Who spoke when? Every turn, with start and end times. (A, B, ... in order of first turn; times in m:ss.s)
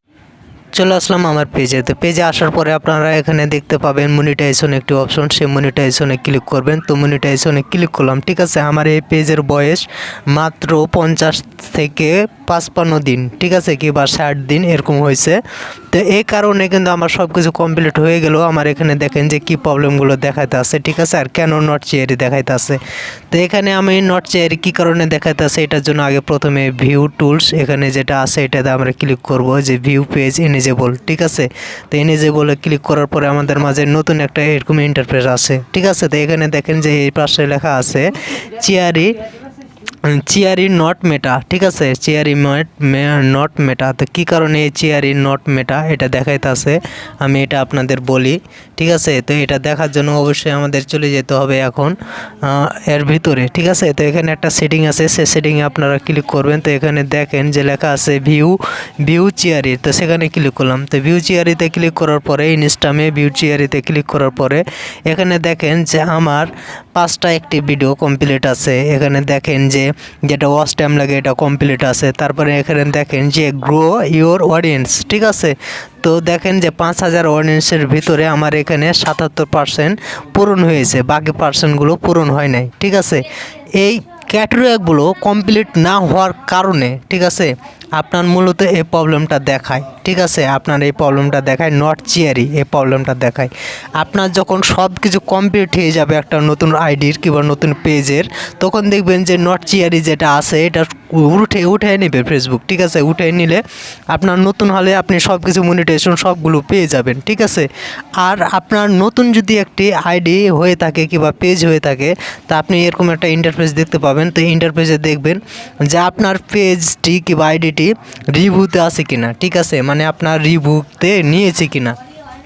0:00.7-0:15.4 A
0:15.9-0:39.2 A
0:39.9-2:02.0 A